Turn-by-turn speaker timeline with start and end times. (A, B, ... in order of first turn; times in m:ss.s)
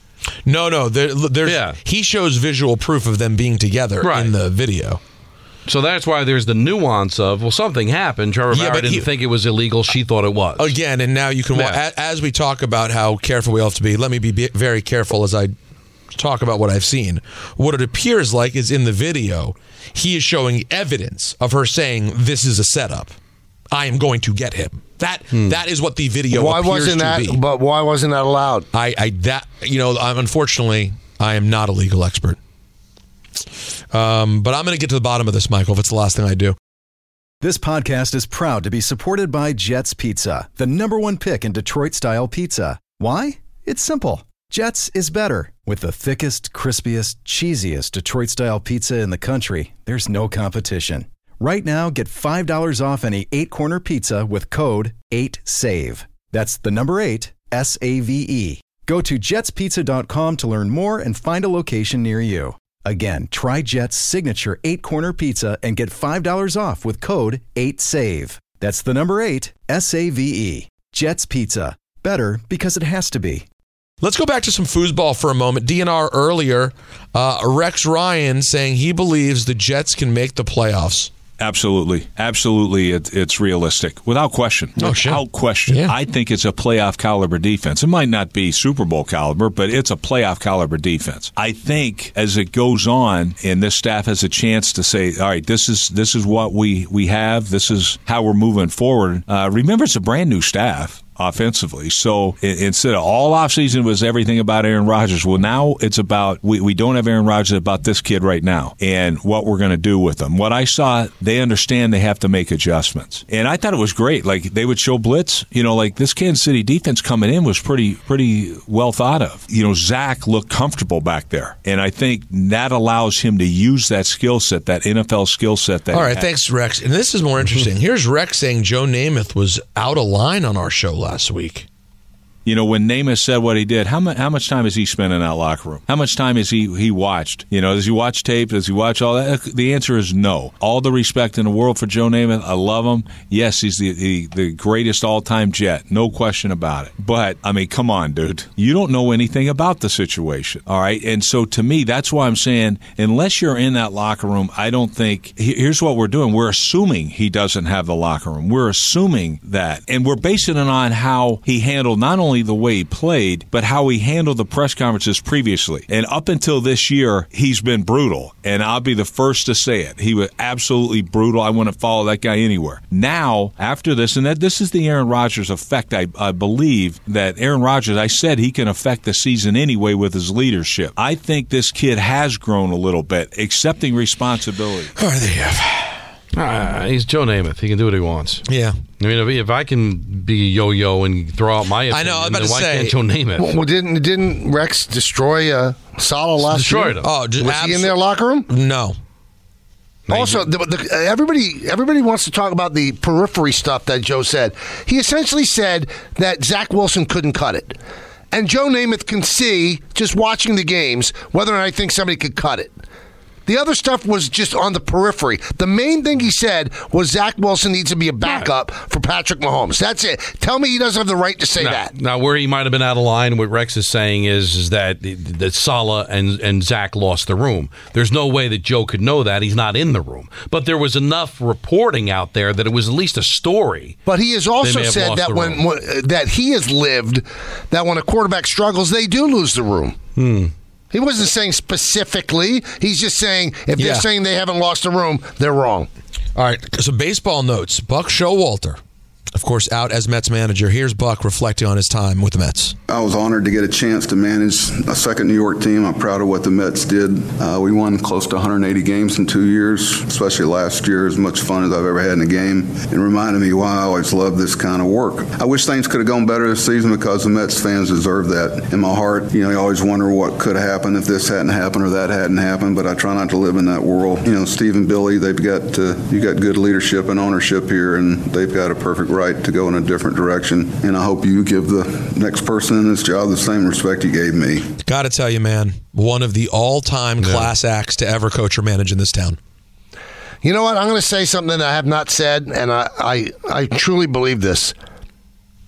0:00.5-0:05.0 A
0:01.4-0:01.8 B
0:04.0-0:04.4 B
0:05.7-0:10.7 B
0:08.5-0:09.1 A
0:10.6-0:15.5 A
0:11.5-0:11.8 B
0:16.1-0:23.2 A
0:23.7-0:27.4 A
0:25.3-0:25.6 B
0:26.3-0:28.7 C
0:28.7-0:32.4 A
0:33.9-0:36.6 A
0:37.4-1:13.4 D
1:14.0-1:21.1 A
1:21.4-2:06.2 E
1:24.8-1:26.0 A
2:05.9-2:11.7 A
2:12.5-3:04.9 E
3:05.0-3:06.0 A
3:06.3-3:08.4 B
3:08.5-3:08.8 A
3:09.0-3:13.6 B
3:11.9-3:13.0 A
3:13.4-3:18.5 C
3:16.5-3:17.1 B
3:17.0-3:19.0 A
3:20.1-3:20.5 B
3:20.1-3:27.8 C
3:28.3-3:32.7 C
3:33.5-3:41.9 C
3:41.6-3:54.0 B
3:54.0-4:00.0 C
3:54.6-3:55.6 B
4:00.2-4:00.5 B
4:00.9-4:05.9 C
4:03.8-4:04.1 A
4:06.4-4:08.8 A
4:09.3-4:12.8 A
4:12.9-4:44.7 F
4:44.8-4:49.4 A
4:47.2-4:47.5 B
4:50.4-4:54.7 C